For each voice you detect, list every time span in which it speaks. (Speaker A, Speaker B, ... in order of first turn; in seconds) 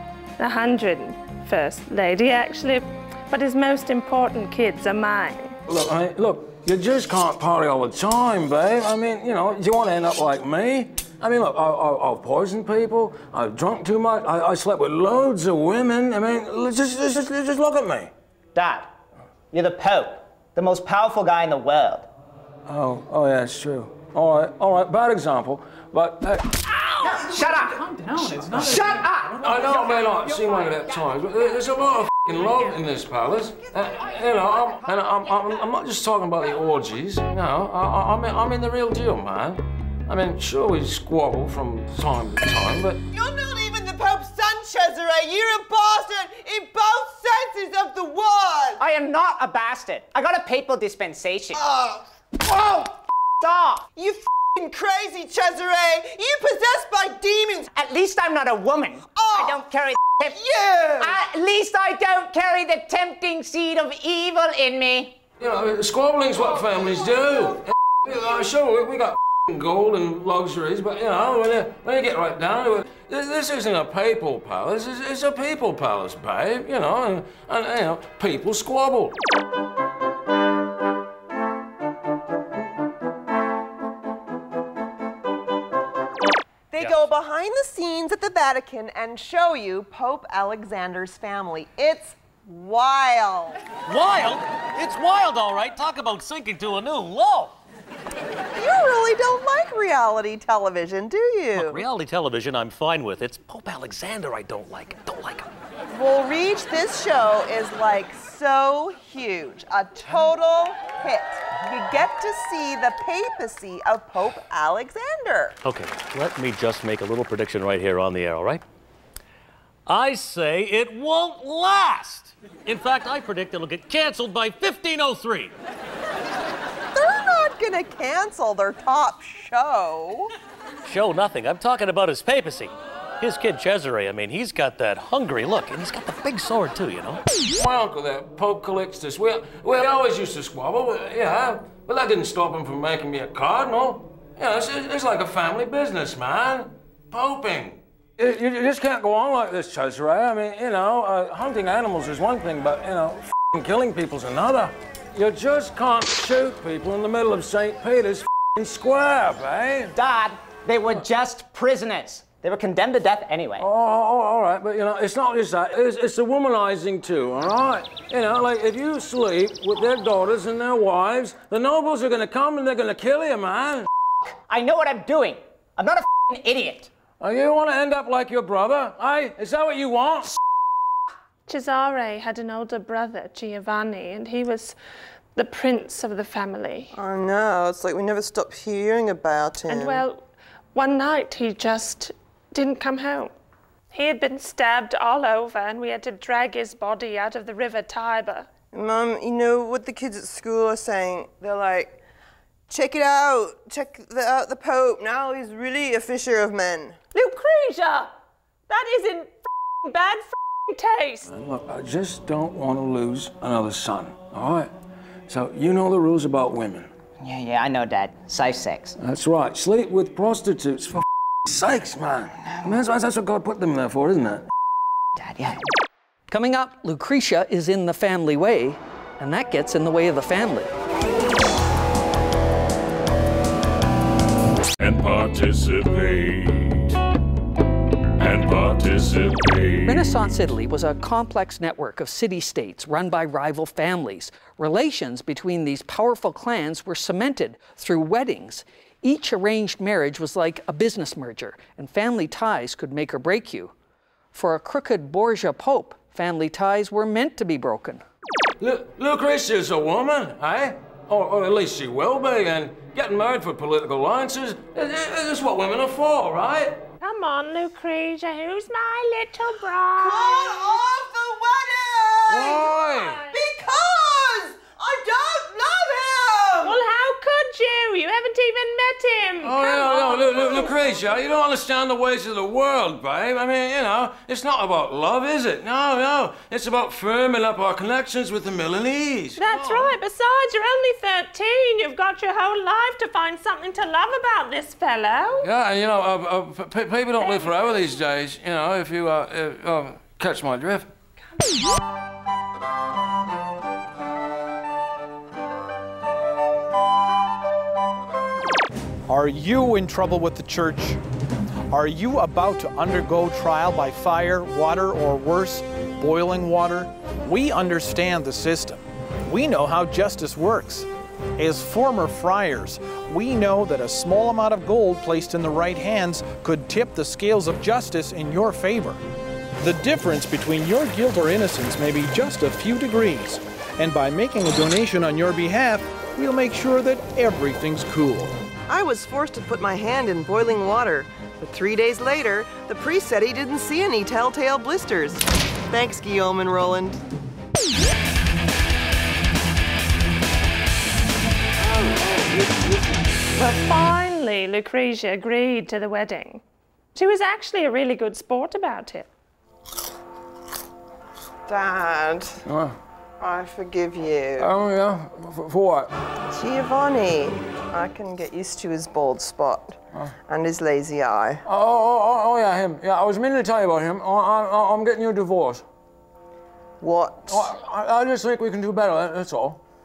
Speaker A: 0.4-5.5, 181.5-184.8, 185.3-186.9, 189.7-190.2, 190.7-193.3, 193.9-198.5, 207.1-208.1, 208.7-211.3, 267.0-270.7, 272.8-273.3, 276.6-280.8, 289.4-295.5, 297.2-297.5, 353.3-356.4, 356.9-359.1
Speaker B: 5.7-18.1, 22.7-26.4, 29.4-43.0, 65.4-79.2, 137.6-159.9, 163.6-173.9, 177.2-180.4, 211.3-214.7, 215.3-216.9, 219.0-224.5, 258.6-266.8, 272.3-273.2, 279.4-289.9, 295.4-300.9, 351.6-353.0, 362.4-362.8, 364.4-365.9, 371.4-375.6, 377.3-379.6
Speaker C: 18.5-18.9, 19.5-22.1, 27.0-27.8, 28.3-31.5, 33.8-35.6, 48.8-51.6, 52.5-52.9, 53.4-53.8, 57.7-60.4, 61.0-65.2, 159.9-163.7, 174.5-176.9, 217.2-219.0, 225.2-225.6
Speaker D: 43.1-48.8, 51.5-52.0, 53.9-57.7, 59.1-61.2, 86.7-93.6, 98.5-101.8, 105.9-115.6, 126.9-130.3, 186.9-190.0, 198.7-202.0, 202.7-207.0, 270.0-272.8, 273.3-276.8, 338.7-347.0, 361.5-362.4, 363.2-364.5, 366.3-371.4, 376.8-377.5
Speaker E: 93.9-97.5, 101.5-105.5, 115.6-118.6, 119.9-125.5, 130.8-137.2
Speaker F: 226.3-230.7, 239.9-253.7, 254.3-258.0
Speaker G: 234.8-236.9, 238.2-240.1
Speaker H: 309.1-311.0, 311.7-320.9, 321.4-329.0, 329.6-338.4